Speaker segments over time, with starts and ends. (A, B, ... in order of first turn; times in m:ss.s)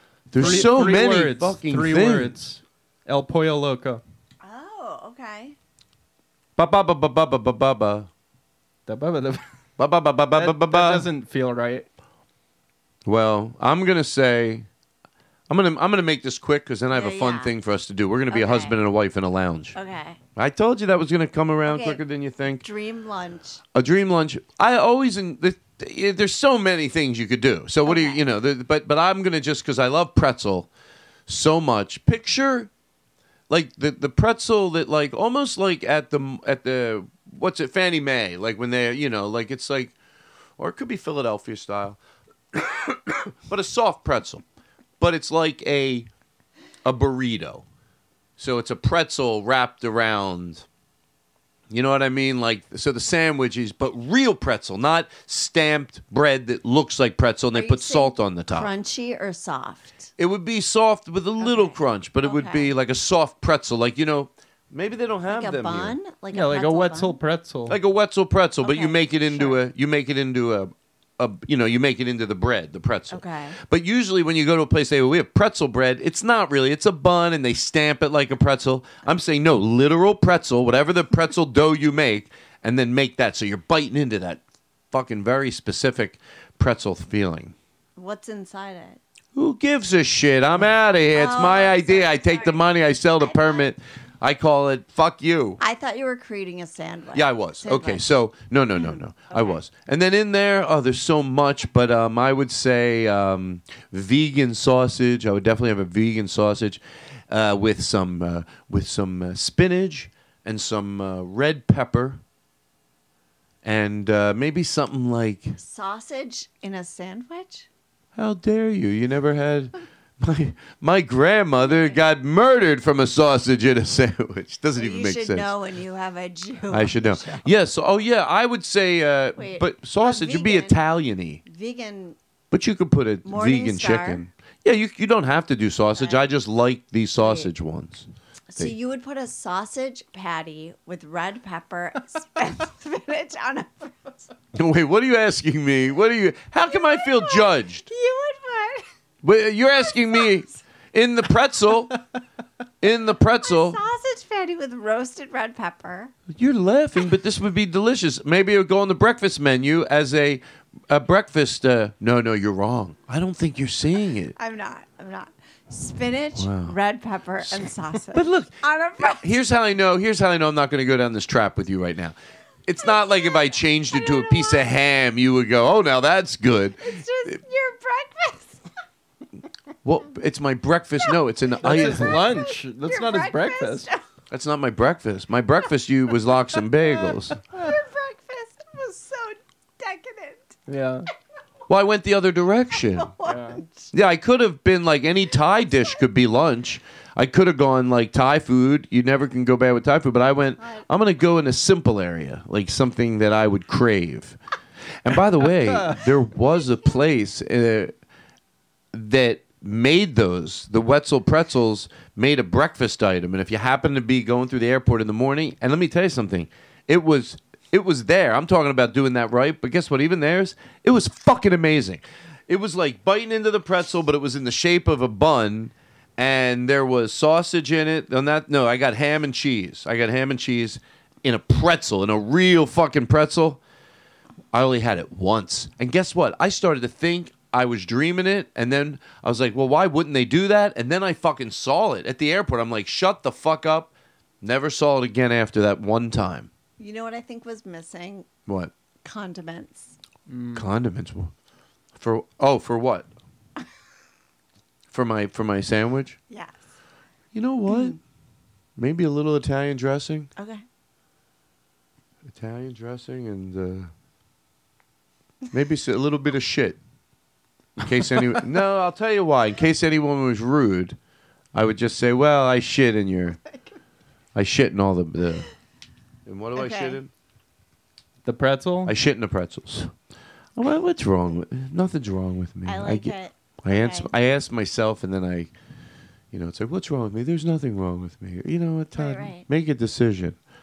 0:00.3-0:02.3 A
0:00.4-0:04.0 B
0:04.4-0:05.6 C
0:06.6-0:08.1 A
0:08.9-0:09.4 B
0:09.8-0:11.1 A
0:10.3-0:11.9 B
0:13.0-0:14.7 A
0:15.5-0:19.8 A
0:16.9-0:17.5 C
0:18.3-0:18.8 C
0:19.7-0:20.2 C
0:20.4-0:22.6 A
0:21.6-0:22.0 C
0:22.6-0:23.6 C
0:23.7-0:30.7 A
0:27.8-0:28.2 C
0:31.3-0:32.7 A
0:33.5-0:39.9 A
0:40.6-0:42.0 A
0:42.5-0:44.4 A
0:45.0-0:46.1 A
0:46.8-0:47.6 A
0:48.4-0:50.6 A
0:51.7-0:58.7 A
0:57.5-1:00.1 C
1:00.2-1:06.0 A
1:01.4-1:02.7 C
1:05.3-1:07.2 C
1:06.3-1:07.8 B
1:07.7-1:24.4 A
1:08.6-1:09.6 C
1:13.1-1:13.6 C
1:24.9-1:27.5 A
1:28.0-1:29.0 C
1:29.3-1:35.6 A
1:31.1-1:33.7 C
1:35.6-1:38.0 C
1:37.1-1:52.2 A
1:38.8-1:39.6 C
1:53.6-1:55.6 A
1:55.6-1:57.7 C
1:58.2-2:05.5 A
2:01.6-2:02.0 C
2:04.8-2:07.5 C
2:06.7-2:11.4 A
2:09.4-2:10.8 C
2:11.4-2:12.2 C
2:12.5-2:18.7 A
2:13.2-2:14.2 C
2:16.0-2:16.2 C
2:17.2-2:17.5 C
2:18.5-2:24.3 C
2:24.5-2:27.8 A
2:26.7-2:28.8 C
2:29.2-2:32.0 A
2:32.8-2:33.8 A
2:33.4-2:36.1 C
2:36.3-2:44.3 A
2:44.3-2:49.2 C
2:46.4-2:46.7 A
2:48.1-2:52.1 A
2:52.6-2:57.4 A
2:52.8-2:54.7 C
2:56.8-2:58.6 C
2:59.8-3:02.2 A
3:01.6-3:03.9 B
3:01.7-3:04.0 C
3:04.3-3:07.4 A
3:06.9-3:10.6 C
3:10.7-3:11.1 B
3:11.7-3:13.1 A
3:12.8-3:13.9 C
3:13.2-3:13.6 B
3:13.9-3:24.4 A
3:15.6-3:16.0 C
3:20.6-3:20.8 C
3:25.0-3:27.9 A
3:28.9-3:53.6 A
3:54.5-4:06.5 A
4:06.8-4:08.3 C
4:09.0-4:10.0 C
4:10.3-4:10.7 B
4:10.5-4:11.3 A
4:12.0-4:13.1 A
4:14.9-4:16.2 A
4:16.3-4:16.6 C
4:17.3-4:18.0 A
4:17.7-4:18.0 C
4:18.8-4:20.3 A
4:20.4-4:20.6 C
4:22.3-4:23.9 A
4:25.5-4:26.8 A
4:27.8-4:31.0 A
4:27.8-4:28.3 B
4:31.5-4:33.4 A
4:33.4-4:33.7 C
4:34.3-4:35.5 A
4:36.2-4:37.1 A
4:36.5-4:37.0 C
4:38.2-4:38.9 B
4:38.9-4:39.9 A
4:40.6-4:45.5 A
4:42.6-4:44.1 C
4:46.3-4:50.4 A
4:49.0-4:49.4 C